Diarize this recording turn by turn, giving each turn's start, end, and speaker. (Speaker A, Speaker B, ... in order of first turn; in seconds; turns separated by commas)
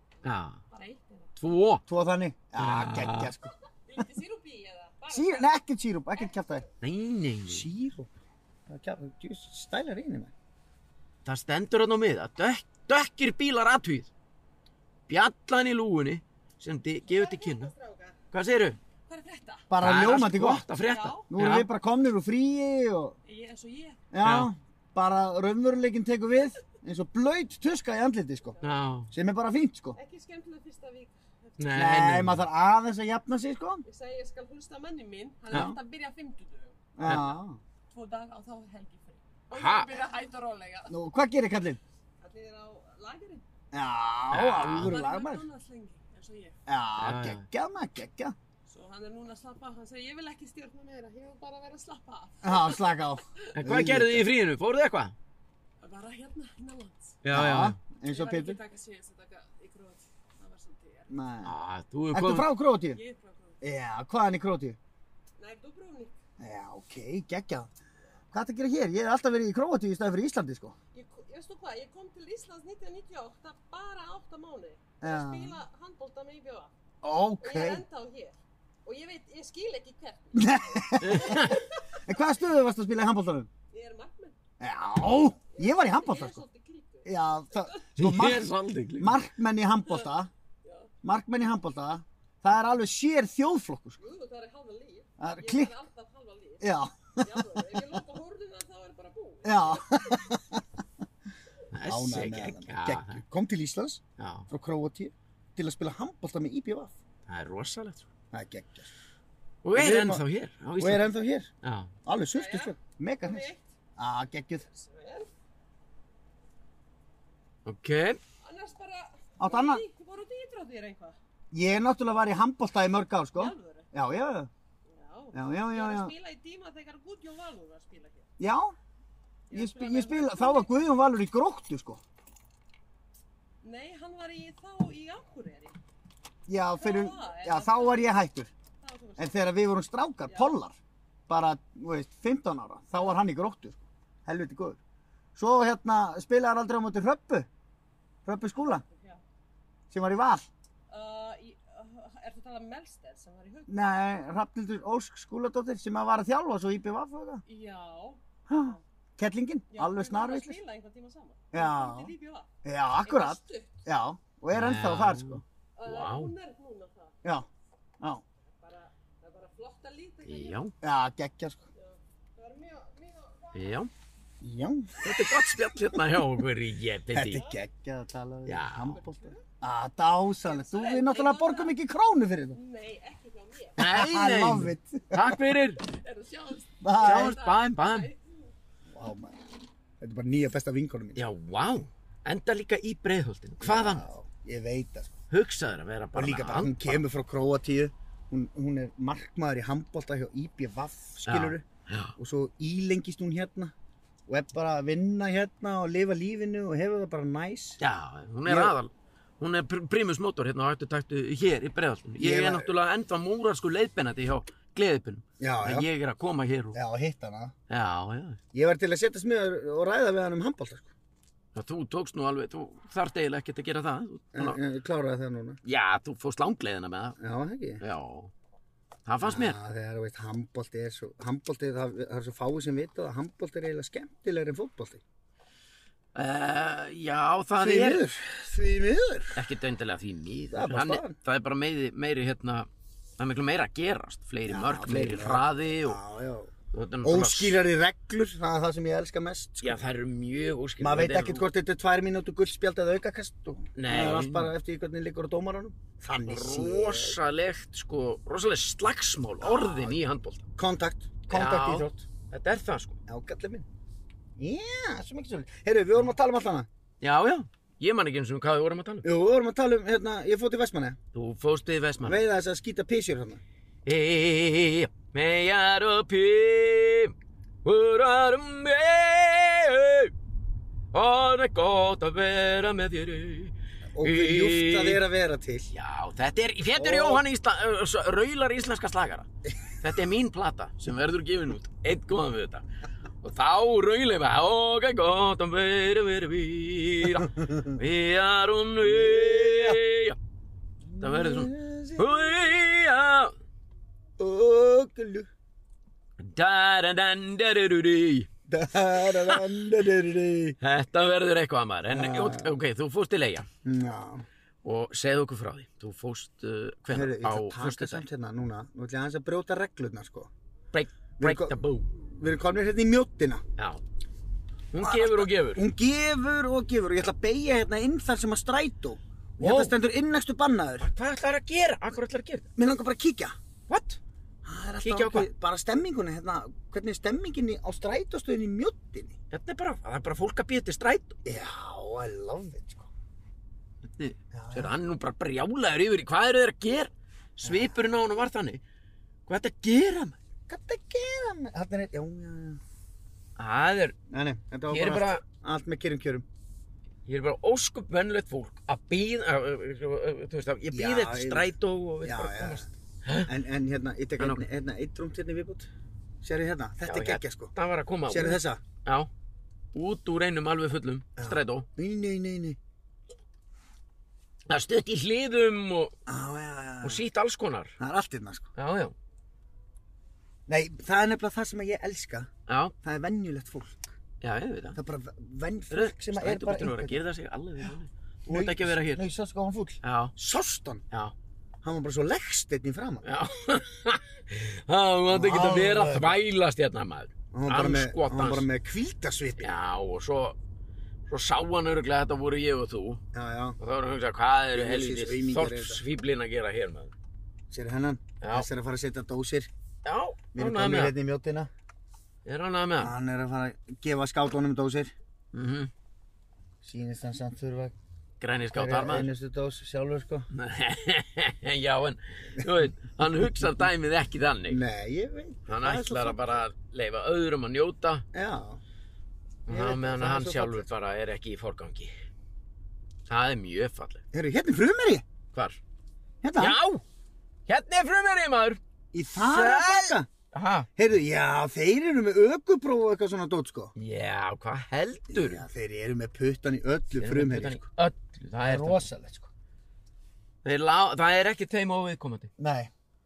Speaker A: 0.2-0.6, Speaker B: 0.7-1.3, Speaker A: 1.4-1.8, Speaker C: 1.9-3.5, Speaker A: 2.6-3.3, Speaker B: 3.9-5.5, Speaker C: 5.1-6.7, Speaker A: 6.8-7.7, Speaker C: 7.5-8.1, Speaker C: 8.7-10.3, Speaker A: 11.2-14.1, Speaker A: 15.1-17.7, Speaker B: 17.1-18.2, Speaker A: 18.3-18.8, Speaker B: 19.1-19.7, Speaker C: 19.7-20.7, Speaker A: 19.8-21.7, Speaker B: 20.8-21.3, Speaker C: 21.3-23.1, Speaker B: 23.3-24.0, Speaker C: 24.1-28.6, Speaker A: 24.2-24.5, Speaker A: 28.6-29.1, Speaker C: 29.1-30.0, Speaker B: 30.0-31.7, Speaker A: 31.6-32.4, Speaker C: 31.8-33.9, Speaker B: 33.9-36.8, Speaker C: 35.5-35.8, Speaker C: 37.0-37.6, Speaker A: 37.1-37.4, Speaker B: 37.9-40.9, Speaker A: 39.5-39.9, Speaker C: 40.9-41.8, Speaker B: 42.2-43.4, Speaker C: 43.7-45.5, Speaker A: 44.3-45.0, Speaker B: 44.7-46.6, Speaker C: 46.7-48.4, Speaker A: 47.0-47.5, Speaker B: 48.7-53.5, Speaker C: 52.4-54.2, Speaker A: 53.5-55.1, Speaker B: 55.8-57.2, Speaker A: 57.2-57.8, Speaker C: 57.3-58.6, Speaker B: 58.0-61.1, Speaker C: 61.1-61.5, Speaker A: 61.4-62.5, Speaker C: 62.1-63.0, Speaker B: 62.9-63.6, Speaker C: 63.6-64.8, Speaker B: 65.4-66.2, Speaker C: 66.4-67.7, Speaker C: 68.3-70.8, Speaker B: 70.9-76.7, Speaker C: 75.0-75.6, Speaker C: 77.0-77.8, Speaker B: 77.4-82.0, Speaker C: 80.3-83.5, Speaker A: 81.0-81.6, Speaker B: 83.7-84.4, Speaker C: 84.6-86.4, Speaker B: 85.5-87.8, Speaker C: 87.0-88.5, Speaker A: 88.0-89.2, Speaker C: 89.0-90.3, Speaker B: 90.6-90.9, Speaker C: 91.0-94.0, Speaker B: 94.0-100.3, Speaker C: 95.2-95.7, Speaker C: 96.6-97.6, Speaker C: 99.4-100.6, Speaker A: 101.7-103.2, Speaker C: 101.9-106.9, Speaker A: 104.2-104.5, Speaker A: 107.3-108.1, Speaker C: 108.3-108.9, Speaker A: 109.6-111.1, Speaker C: 109.7-110.2, Speaker C: 110.8-111.5, Speaker A: 111.6-111.9, Speaker C: 112.1-114.7, Speaker B: 112.3-113.6, Speaker B: 114.7-115.3, Speaker A: 117.7-118.2, Speaker B: 118.4-121.2, Speaker C: 119.4-119.8, Speaker C: 121.5-124.5, Speaker B: 123.4-123.9, Speaker B: 124.9-128.3, Speaker C: 125.3-126.1, Speaker C: 128.4-128.8, Speaker B: 129.5-130.7, Speaker C: 129.5-132.0, Speaker B: 133.6-135.8, Speaker C: 136.5-138.5, Speaker B: 136.8-138.1, Speaker B: 138.8-139.4, Speaker C: 139.2-140.8, Speaker C: 141.3-144.8, Speaker C: 145.4-147.5, Speaker C: 148.3-148.8, Speaker B: 148.8-149.2, Speaker C: 149.9-150.5, Speaker B: 150.9-153.8, Speaker C: 153.7-157.4, Speaker B: 157.5-158.2, Speaker C: 158.5-160.6, Speaker B: 159.7-162.5, Speaker C: 161.5-162.1, Speaker C: 162.7-165.4, Speaker B: 163.0-163.8, Speaker A: 164.5-166.3, Speaker B: 165.8-167.1, Speaker B: 168.6-170.6, Speaker A: 170.2-170.7, Speaker C: 170.8-171.6, Speaker B: 171.8-173.8, Speaker A: 173.5-173.9, Speaker C: 174.4-176.1, Speaker A: 175.0-177.4, Speaker C: 177.1-182.6, Speaker A: 178.5-179.0, Speaker B: 180.4-181.8, Speaker B: 182.5-183.8, Speaker A: 183.8-185.8, Speaker C: 183.8-185.4, Speaker B: 185.8-188.5, Speaker C: 186.8-187.4, Speaker A: 187.0-188.1, Speaker C: 188.9-189.5, Speaker C: 190.0-191.2, Speaker A: 191.2-194.1, Speaker C: 193.6-195.1, Speaker A: 195.3-197.0, Speaker C: 196.2-201.7, Speaker A: 201.3-202.2, Speaker C: 202.2-203.7, Speaker C: 204.3-207.8, Speaker A: 207.8-216.8, Speaker C: 208.5-208.7, Speaker C: 212.2-212.7, Speaker C: 215.4-215.9, Speaker C: 216.8-217.5, Speaker A: 217.7-218.4, Speaker C: 218.5-220.9, Speaker A: 221.6-224.6, Speaker C: 224.3-225.6, Speaker A: 225.6-227.2, Speaker C: 227.2-227.8, Speaker A: 227.8-228.3, Speaker A: 229.1-229.6, Speaker C: 229.2-235.0, Speaker A: 236.2-238.1, Speaker C: 237.6-239.4, Speaker A: 239.3-242.7, Speaker C: 240.5-241.2, Speaker A: 243.2-246.0, Speaker C: 244.5-246.5, Speaker A: 246.7-247.6, Speaker C: 247.0-249.8, Speaker A: 249.6-251.5, Speaker C: 250.8-257.2, Speaker A: 253.8-254.5, Speaker A: 256.3-260.4, Speaker C: 259.4-260.0, Speaker C: 260.6-262.1, Speaker A: 261.3-263.0, Speaker C: 263.1-263.7, Speaker C: 264.4-266.7, Speaker A: 267.0-269.1, Speaker C: 269.0-271.0, Speaker A: 271.1-272.2, Speaker C: 272.0-273.4, Speaker A: 273.9-277.1, Speaker A: 277.6-280.1, Speaker A: 280.9-285.0, Speaker C: 283.9-285.7, Speaker A: 285.7-289.3, Speaker C: 286.8-287.2, Speaker A: 289.8-292.7, Speaker A: 293.2-300.2, Speaker C: 297.2-297.8, Speaker C: 298.8-299.8, Speaker C: 300.9-302.4, Speaker A: 301.0-303.3, Speaker C: 304.2-305.3, Speaker A: 306.2-308.3, Speaker C: 308.5-310.6, Speaker A: 309.1-309.4, Speaker A: 310.6-313.5, Speaker C: 311.9-312.6, Speaker C: 313.6-314.2, Speaker A: 314.6-318.1, Speaker C: 316.9-320.3, Speaker A: 320.7-321.9, Speaker C: 321.2-323.4, Speaker A: 323.6-323.8, Speaker A: 324.7-325.6, Speaker C: 324.8-330.9, Speaker A: 329.4-329.8, Speaker A: 330.8-332.5, Speaker C: 332.6-333.4, Speaker A: 333.7-334.0, Speaker C: 334.4-339.1, Speaker A: 334.8-335.3, Speaker A: 339.3-341.2, Speaker C: 341.2-342.9, Speaker A: 343.9-348.6, Speaker C: 344.3-344.8, Speaker C: 347.4-347.7, Speaker A: 349.3-350.2, Speaker C: 350.5-352.6, Speaker A: 353.4-354.0, Speaker C: 354.1-356.3, Speaker A: 354.7-355.2, Speaker A: 357.1-363.3, Speaker C: 360.7-361.5, Speaker C: 362.0-362.7, Speaker C: 363.3-365.7, Speaker C: 366.2-367.5, Speaker A: 366.9-369.1, Speaker C: 368.1-368.6, Speaker A: 369.7-371.7, Speaker C: 371.2-372.6, Speaker A: 374.5-375.9, Speaker C: 376.1-377.0, Speaker A: 376.8-377.8, Speaker C: 377.8-378.5, Speaker A: 378.6-378.9, Speaker C: 380.5-382.3, Speaker A: 382.5-382.7, Speaker C: 382.8-384.0, Speaker A: 384.2-384.8, Speaker C: 384.8-387.0, Speaker A: 385.7-389.1, Speaker C: 388.3-390.8, Speaker A: 389.8-390.1, Speaker C: 391.6-393.1, Speaker A: 393.0-398.5, Speaker C: 395.1-396.2, Speaker C: 397.3-399.6, Speaker A: 399.4-400.4, Speaker A: 401.1-403.0, Speaker C: 403.1-403.6, Speaker A: 403.6-406.9, Speaker C: 404.6-405.8, Speaker C: 407.5-409.5, Speaker A: 408.2-408.5, Speaker A: 409.9-410.9, Speaker C: 410.4-411.5, Speaker A: 412.2-412.9, Speaker C: 412.8-414.9, Speaker A: 415.3-415.7, Speaker C: 416.6-417.8, Speaker A: 418.2-419.1, Speaker C: 418.5-420.3, Speaker A: 420.3-424.6, Speaker C: 424.5-426.4, Speaker A: 425.5-428.1, Speaker C: 428.1-428.6, Speaker A: 429.5-431.9, Speaker C: 429.5-430.7, Speaker A: 433.1-434.0, Speaker C: 434.1-435.0, Speaker A: 435.3-435.6, Speaker C: 436.2-436.6, Speaker A: 436.4-436.8, Speaker A: 437.5-438.6, Speaker C: 438.9-440.1, Speaker A: 439.1-440.7, Speaker C: 440.8-443.7, Speaker A: 443.8-445.4, Speaker C: 445.1-447.6, Speaker A: 447.0-448.9, Speaker C: 448.4-449.3, Speaker A: 450.4-452.3, Speaker C: 452.4-452.7